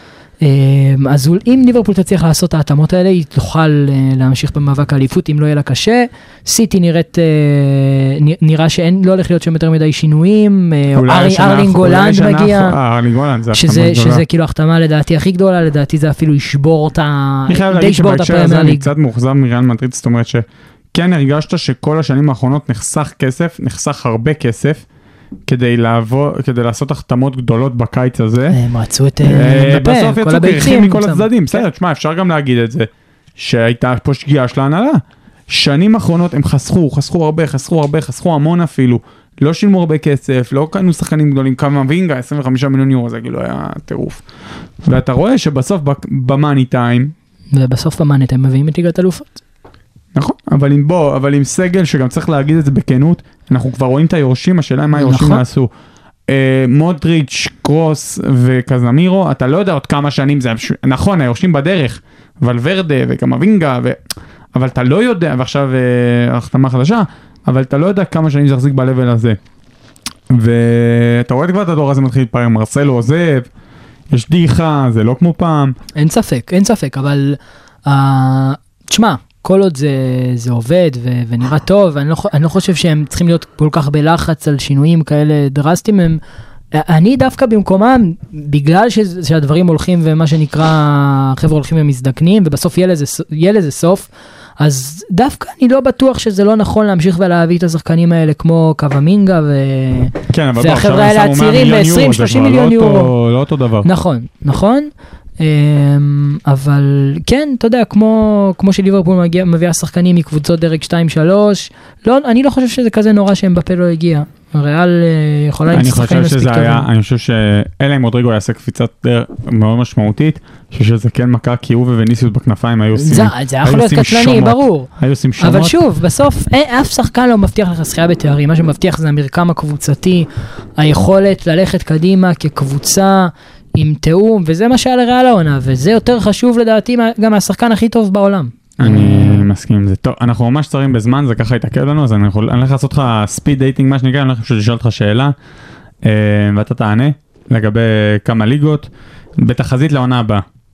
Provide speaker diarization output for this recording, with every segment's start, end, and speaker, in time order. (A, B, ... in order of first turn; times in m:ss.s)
0:00.4-0:12.8 A
0:11.0-0:14.2 B
0:13.5-0:18.9 A
0:17.5-0:24.8 B
0:25.5-0:28.6 B
0:28.5-0:31.6 A
0:29.2-0:44.2 B
0:44.8-0:47.1 B
0:47.5-0:49.4 A
0:50.2-0:55.7 B
0:55.0-0:55.4 A
0:56.3-1:04.0 B
1:04.6-1:09.4 B
1:10.3-1:13.5 B
1:14.1-1:15.8 B
1:16.0-1:26.2 A
1:26.7-1:34.1 A
1:34.6-1:43.1 A
1:40.3-1:43.9 B
1:43.8-1:56.9 A
1:55.7-2:05.8 B
2:03.0-2:04.9 A
2:05.4-2:19.5 A
2:18.8-2:25.3 B
2:26.0-2:30.4 B